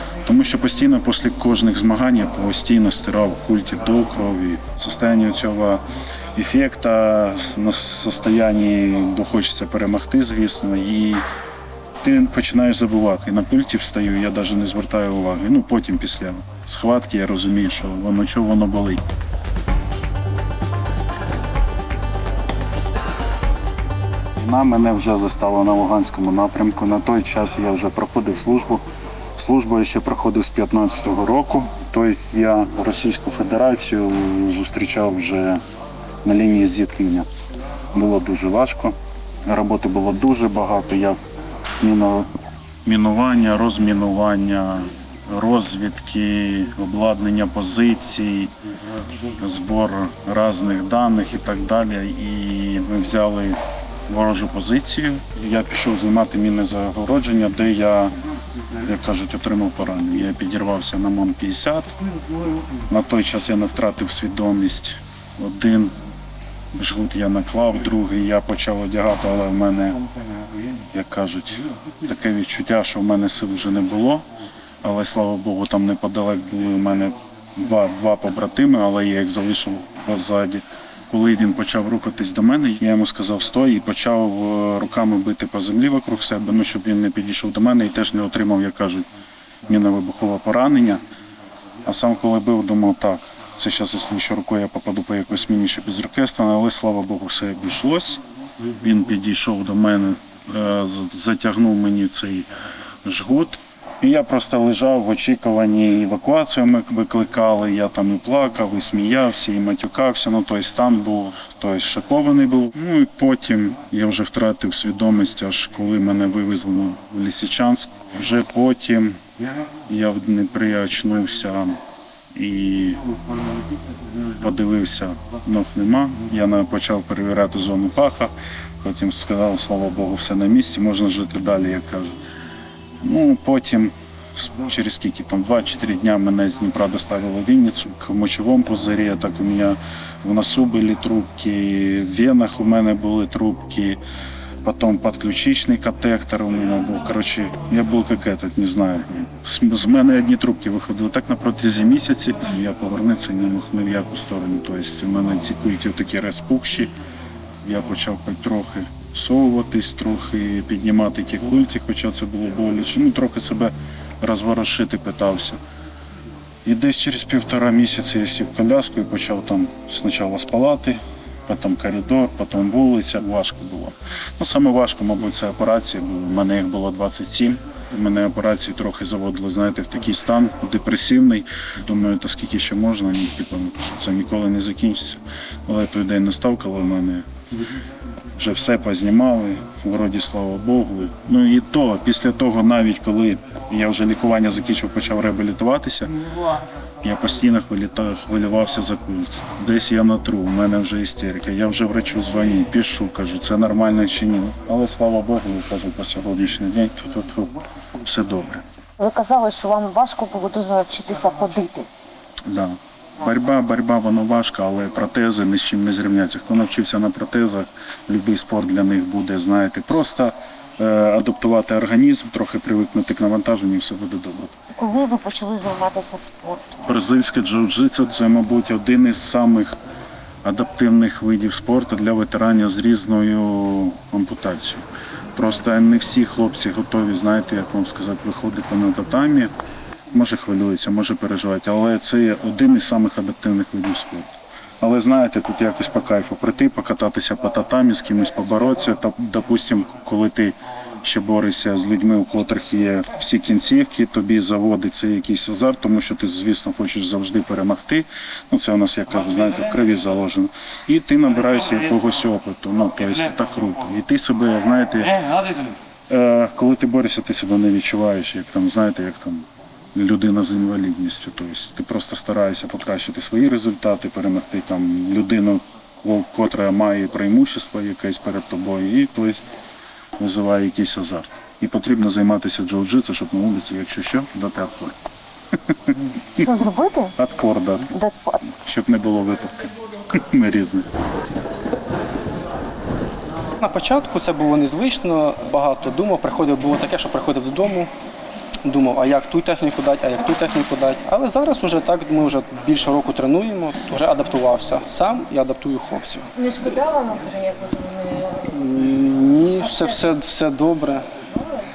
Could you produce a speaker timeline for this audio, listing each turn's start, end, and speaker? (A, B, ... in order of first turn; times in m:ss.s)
0:00.2-0:05.8 A
0:06.4-0:11.2 A
0:12.0-0:19.0 A
0:24.4-0:28.8 A
0:29.4-0:35.6 A
0:36.2-0:37.3 A
0:37.9-0:39.0 A
0:39.5-0:41.2 A
0:41.8-0:42.3 A
0:42.8-0:48.5 A
0:49.4-0:58.1 A
0:58.8-1:01.9 A
1:02.9-1:05.9 A
1:06.8-1:10.0 A
1:10.9-1:14.2 A
1:14.8-1:29.1 A
1:29.7-1:31.0 A
1:31.8-1:38.2 A
1:38.8-1:42.5 A
1:43.0-1:59.2 A
1:59.9-2:01.8 A
2:02.4-2:03.0 A
2:04.4-2:12.2 A
2:13.0-2:24.0 A
2:24.6-2:36.9 A
2:37.6-2:45.6 A
2:46.6-3:07.2 A
3:08.4-3:16.1 A
3:17.0-3:28.6 A
3:29.0-3:31.9 B
3:32.5-3:44.5 A
3:44.8-3:46.8 B
3:46.8-3:49.8 A
3:50.4-3:54.8 A
3:55.4-3:59.5 A
4:00.1-4:25.3 A
4:26.1-4:39.5 A
4:40.2-4:45.0 A
4:45.7-4:46.4 A
4:46.4-4:47.2 B
4:47.2-4:47.9 A
4:47.9-4:48.4 B
4:48.4-4:50.8 A
4:53.6-4:57.9 C
4:58.6-5:06.3 C
5:06.4-5:08.4 B
5:08.4-5:11.0 C
5:09.6-5:09.9 B